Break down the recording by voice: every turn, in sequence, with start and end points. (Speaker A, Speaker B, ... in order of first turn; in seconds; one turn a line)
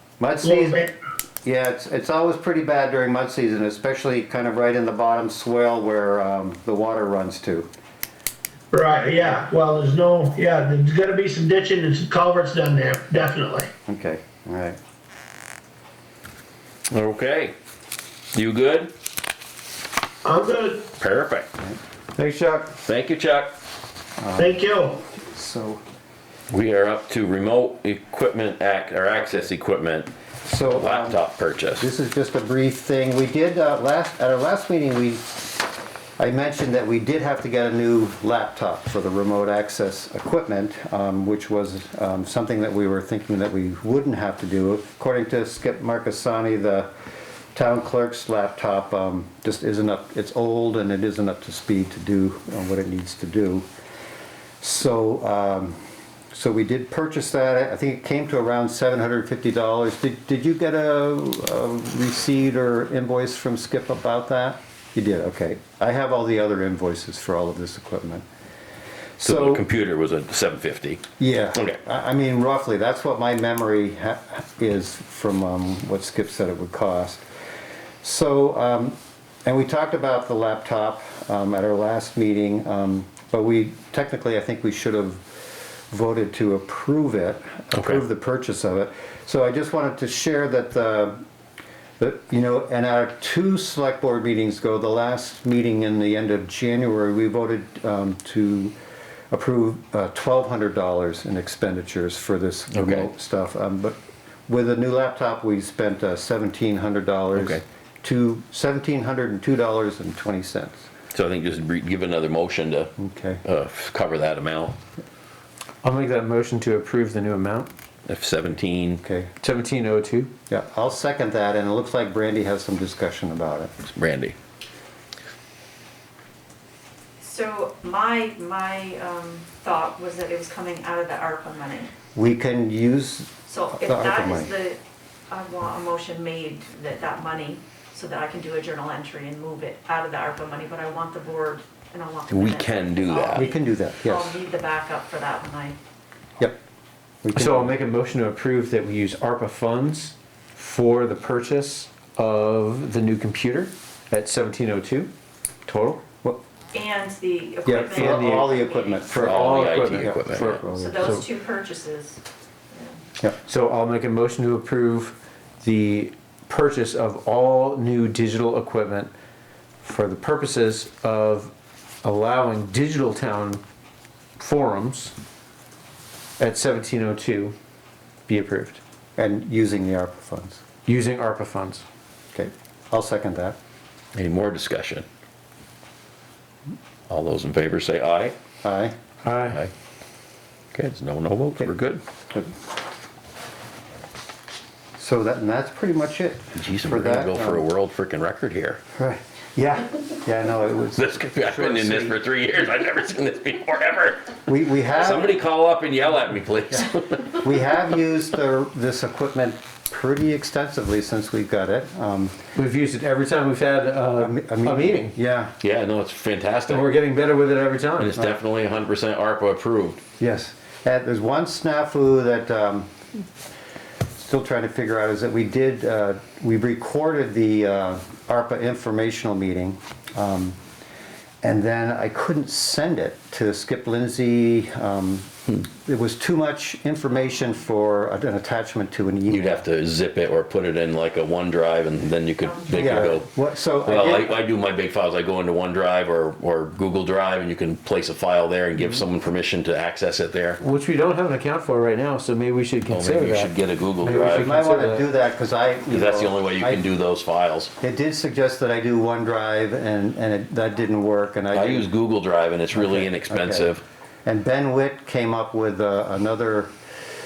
Speaker A: 0.2-0.9
Speaker B: 0.4-0.9
Speaker A: 1.4-7.7
Speaker B: 8.7-13.7
Speaker A: 13.9-14.8
Speaker C: 16.9-17.6
Speaker C: 18.3-18.9
Speaker B: 20.2-20.9
Speaker C: 21.0-21.5
Speaker D: 22.1-22.8
Speaker C: 22.8-23.6
Speaker A: 24.2-25.8
Speaker B: 24.4-25.0
Speaker C: 26.5-30.1
Speaker A: 30.4-31.2
Speaker C: 30.7-31.9
Speaker A: 31.8-35.4
Speaker A: 36.2-46.9
Speaker A: 47.5-53.7
Speaker A: 54.6-55.8
Speaker A: 56.3-68.2
Speaker A: 69.2-69.7
Speaker C: 69.2-71.0
Speaker A: 71.2-77.2
Speaker A: 78.0-85.4
Speaker A: 85.9-91.2
Speaker C: 87.7-88.0
Speaker A: 92.0-98.8
Speaker A: 99.3-104.0
Speaker C: 102.7-103.1
Speaker A: 104.5-110.9
Speaker C: 107.3-107.6
Speaker C: 111.1-112.9
Speaker A: 113.0-113.4
Speaker C: 113.5-114.8
Speaker D: 115.8-117.7
Speaker C: 118.1-119.0
Speaker A: 119.0-119.3
Speaker D: 119.4-120.3
Speaker A: 120.5-123.7
Speaker C: 123.8-124.4
Speaker E: 127.2-131.9
Speaker A: 132.2-134.5
Speaker E: 133.5-145.8
Speaker C: 142.3-143.5
Speaker A: 143.3-144.4
Speaker A: 147.2-147.8
Speaker D: 147.3-155.1
Speaker D: 155.7-156.0
Speaker E: 156.7-159.8
Speaker A: 157.7-161.2
Speaker D: 157.9-161.3
Speaker C: 159.2-160.7
Speaker E: 160.7-163.0
Speaker D: 163.4-169.1
Speaker D: 169.8-173.6
Speaker D: 174.4-175.2
Speaker D: 176.4-177.6
Speaker D: 178.3-178.8
Speaker A: 179.2-180.6
Speaker D: 180.9-181.8
Speaker A: 182.3-183.6
Speaker C: 184.2-185.1
Speaker C: 187.1-188.3
Speaker A: 188.6-188.9
Speaker D: 189.2-189.6
Speaker C: 190.7-192.0
Speaker A: 195.0-197.7
Speaker C: 196.6-198.8
Speaker A: 199.0-201.1
Speaker C: 201.0-204.3
Speaker D: 201.4-202.2
Speaker A: 204.5-205.4
Speaker C: 204.9-207.5
Speaker A: 207.4-212.4
Speaker D: 212.6-215.2
Speaker A: 214.2-215.5
Speaker C: 215.6-216.9
Speaker D: 216.7-218.1
Speaker C: 218.0-220.0
Speaker A: 220.2-222.9
Speaker A: 224.2-230.6
Speaker A: 231.4-239.5
Speaker C: 239.3-243.3
Speaker E: 242.4-243.2
Speaker A: 242.7-244.3
Speaker C: 243.8-250.6
Speaker D: 250.6-255.1
Speaker C: 252.9-254.5
Speaker A: 254.1-256.8
Speaker C: 255.9-257.7
Speaker A: 257.8-261.9
Speaker C: 261.5-263.8
Speaker A: 262.7-263.7
Speaker A: 264.3-266.7